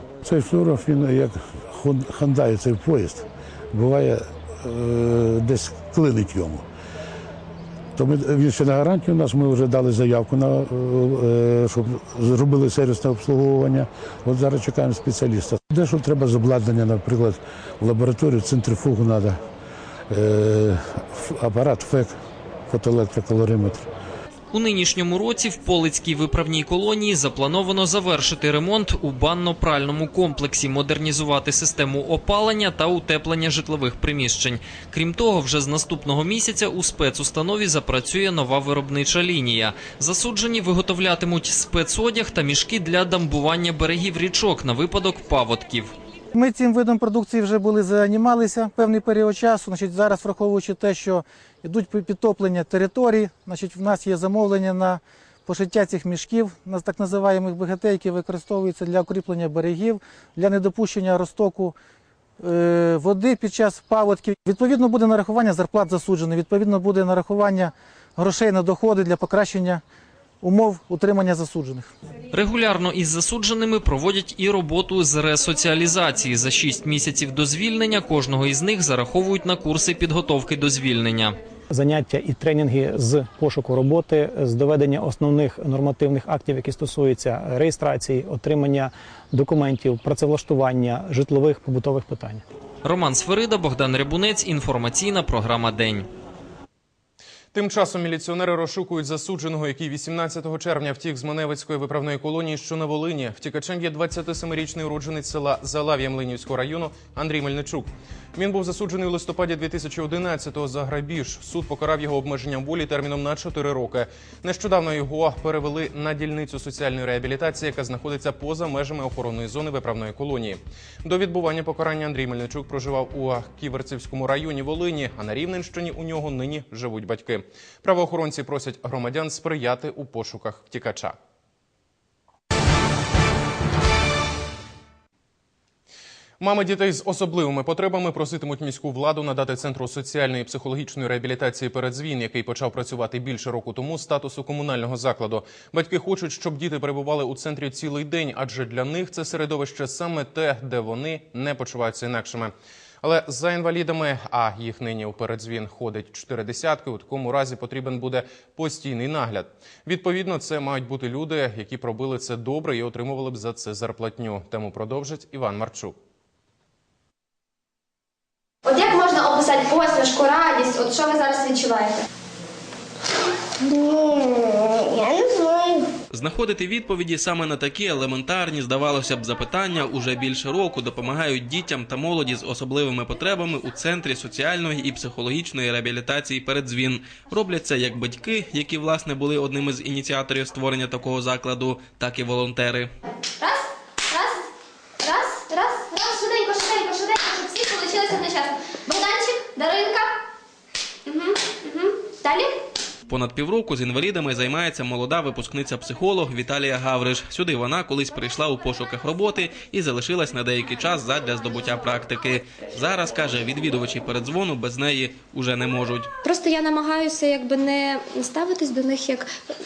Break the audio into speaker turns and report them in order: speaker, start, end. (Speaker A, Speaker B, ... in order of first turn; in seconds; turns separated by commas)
Speaker A: 0.2-6.7, Speaker A: 7.9-19.4, Speaker A: 20.1-22.1, Speaker A: 22.7-23.9, Speaker B: 24.5-45.9, Speaker C: 46.3-61.8, Speaker C: 62.4-69.8, Speaker C: 70.4-71.9, Speaker B: 72.3-81.4, Speaker D: 81.7-92.4, Speaker B: 92.8-96.1, Speaker E: 97.5-131.2, Speaker E: 136.4-165.9, Speaker F: 168.7-172.1, Speaker G: 176.1-192.9, Speaker F: 193.4-194.4, Speaker F: 195.0-200.2, Speaker F: 201.1-202.6, Speaker G: 203.1-216.1, Speaker F: 216.2-219.3